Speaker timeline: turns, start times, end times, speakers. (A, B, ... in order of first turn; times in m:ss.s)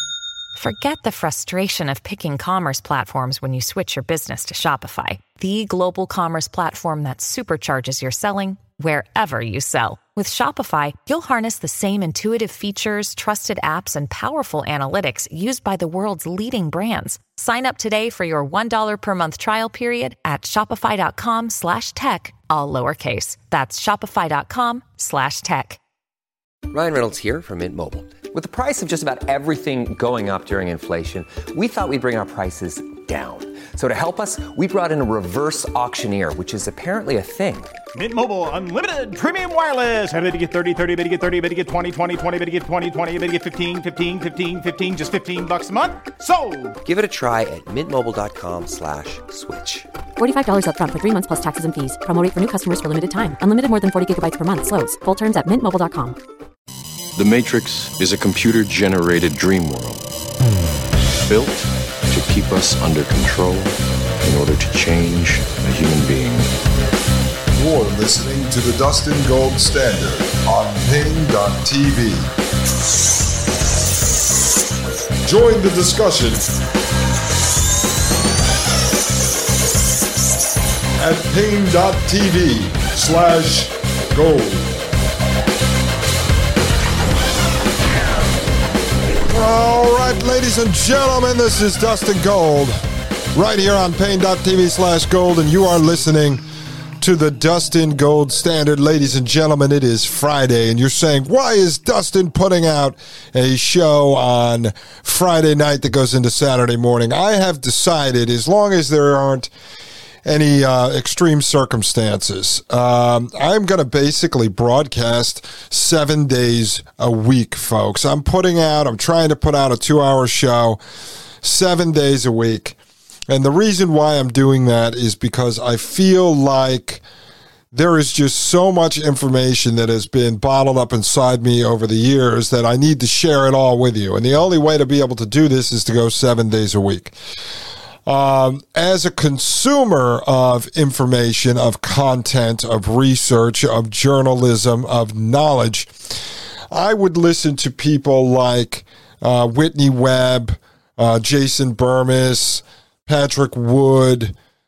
0:00.6-0:25.8 A
0:26.7-0:37.8 B
0:37.9-0:46.8 C
0:46.8-0:49.9 B
0:50.2-0:56.2 D
0:57.2-1:00.0 E
1:01.3-1:06.5 E
1:07.5-1:12.3 F
1:15.2-1:16.5 F
1:21.0-1:24.7 F
1:29.3-1:32.8 F
1:33.3-1:36.4 F
1:37.0-1:49.5 F
1:50.2-2:00.8 F
2:01.4-2:02.8 F
2:03.3-2:07.0 F
2:07.7-2:17.1 F
2:18.0-2:25.9 F
2:26.7-2:34.3 F